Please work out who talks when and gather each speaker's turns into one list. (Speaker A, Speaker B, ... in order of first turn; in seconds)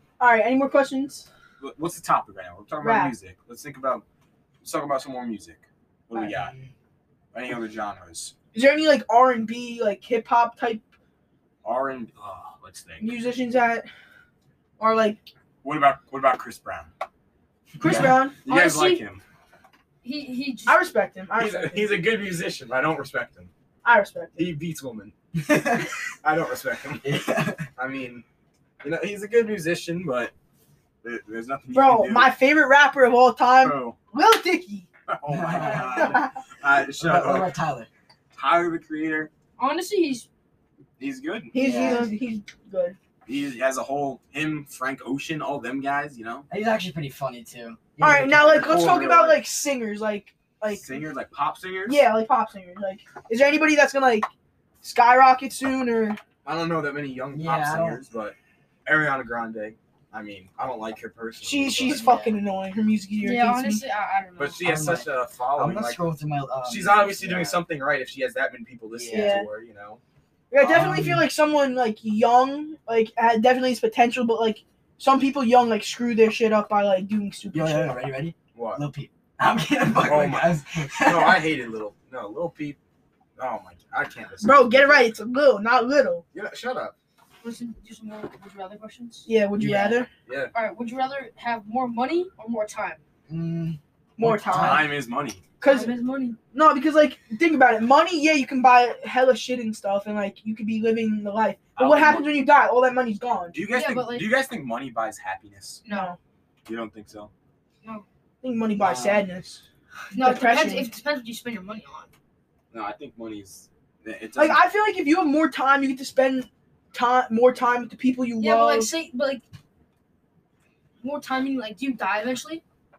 Speaker A: 0.2-1.3, 2.8-3.1, 8.5-10.9, 13.0-13.9, 14.8-15.2, 17.8-18.3, 20.7-22.1, 23.8-24.5, 31.7-34.9, 35.7-36.3, 41.5-43.0, 48.0-50.8, 51.9-54.3, 54.8-56.2, 61.4-63.8, 69.1-69.5, 70.5-78.0, 84.4-86.2, 89.2-90.1, 94.2-94.9, 95.6-96.0, 96.5-103.6, 105.9-106.2, 108.4-109.6, 110.1-110.9, 114.4-118.9
Speaker B: 1.6-4.0, 4.6-6.5, 7.3-8.3, 11.6-13.2, 15.6-16.9, 17.8-19.2, 21.4-23.5, 24.4-28.2, 28.8-30.3, 31.0-32.3, 33.5-34.0, 35.1-37.5, 38.3-39.3, 41.0-41.6, 43.2-46.4, 48.5-49.4, 50.7-52.0, 56.4-62.1, 64.4-66.0, 66.6-70.0, 78.5-78.8, 80.0-82.8, 83.4-85.1, 86.3-86.9, 90.2-90.5, 94.4-95.4, 101.8-102.4, 103.5-105.8, 106.7-107.3, 112.7-114.6
Speaker C: 6.3-6.7, 25.5-25.8, 27.0-27.7, 35.3-36.2, 37.0-37.9, 41.5-42.1, 46.5-48.8, 57.3-58.0, 61.8-62.4, 64.6-67.6, 68.9-69.4, 70.6-71.3, 77.5-81.5, 89.6-90.1, 93.3-94.9, 108.8-109.2
Speaker D: 18.4-19.0, 20.0-20.8, 39.6-40.3, 41.8-42.0, 63.2-64.6, 87.4-89.3, 90.5-93.0, 95.6-96.4, 103.7-104.3, 105.8-106.1, 110.1-112.1, 118.4-119.4, 121.0-122.6